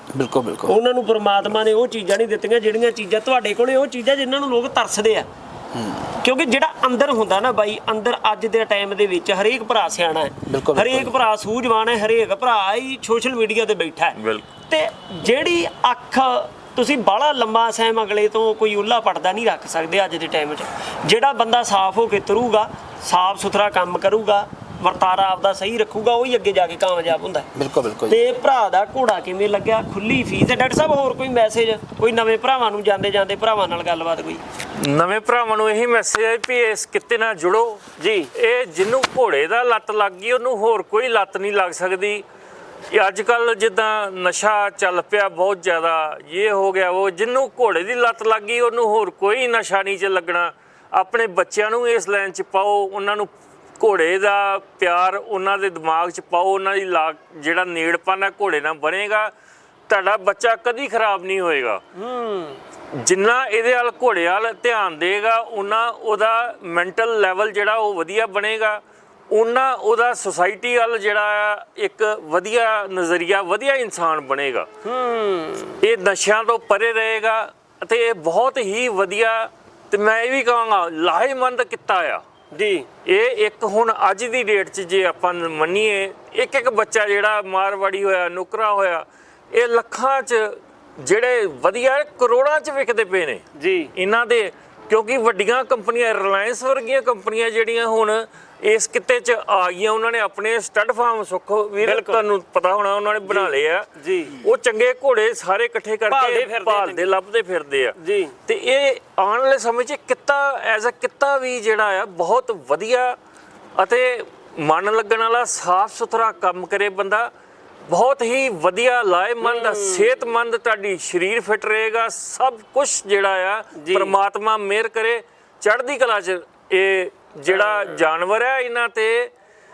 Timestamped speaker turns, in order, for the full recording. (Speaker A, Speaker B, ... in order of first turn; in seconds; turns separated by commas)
Speaker A: 0.1-0.8, Speaker B: 0.7-5.3, Speaker A: 5.8-6.1, Speaker B: 6.2-14.2, Speaker A: 10.5-11.1, Speaker C: 14.2-14.5, Speaker B: 14.7-27.5, Speaker A: 27.6-28.2, Speaker B: 28.1-34.4, Speaker C: 34.8-42.2, Speaker B: 38.0-38.3, Speaker C: 42.9-59.3, Speaker C: 59.9-61.8, Speaker B: 62.0-62.6, Speaker C: 63.0-74.7, Speaker B: 74.8-75.8, Speaker C: 75.8-82.2, Speaker B: 82.5-82.9, Speaker C: 83.0-93.4, Speaker B: 93.6-93.9, Speaker C: 94.0-113.2, Speaker B: 101.8-102.2, Speaker B: 103.3-104.4, Speaker B: 106.1-107.1, Speaker B: 108.0-108.4, Speaker C: 113.8-117.3, Speaker C: 117.9-129.3, Speaker B: 119.4-120.1, Speaker B: 123.8-124.1, Speaker B: 127.5-128.0